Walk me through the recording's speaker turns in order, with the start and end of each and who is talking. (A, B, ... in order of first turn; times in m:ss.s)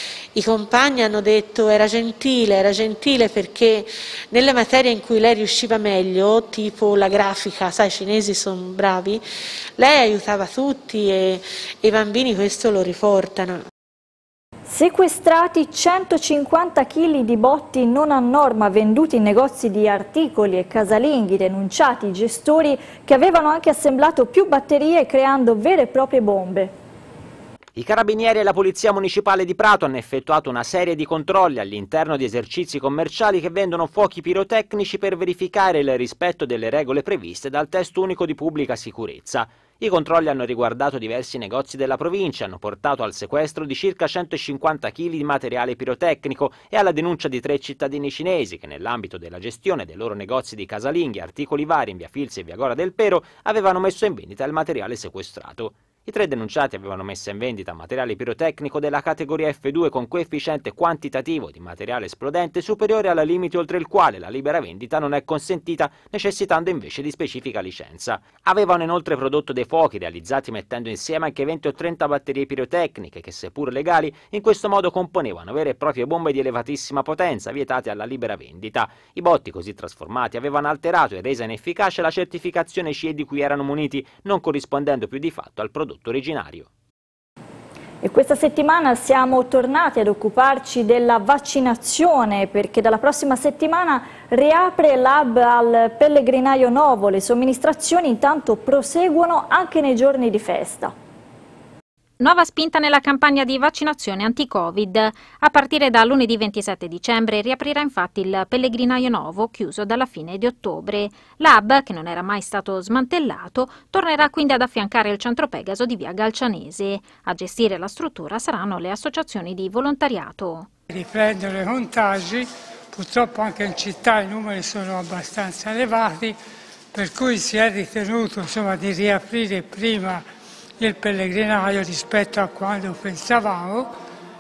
0:00.4-0:09.2 A
0:09.8-0:13.6 A
0:14.7-0:26.7 B
0:27.8-1:26.7 C
1:28.0-1:40.9 B
1:42.2-2:00.7 D
2:00.9-2:06.4 E
2:06.9-2:10.2 E
2:10.8-2:13.9 E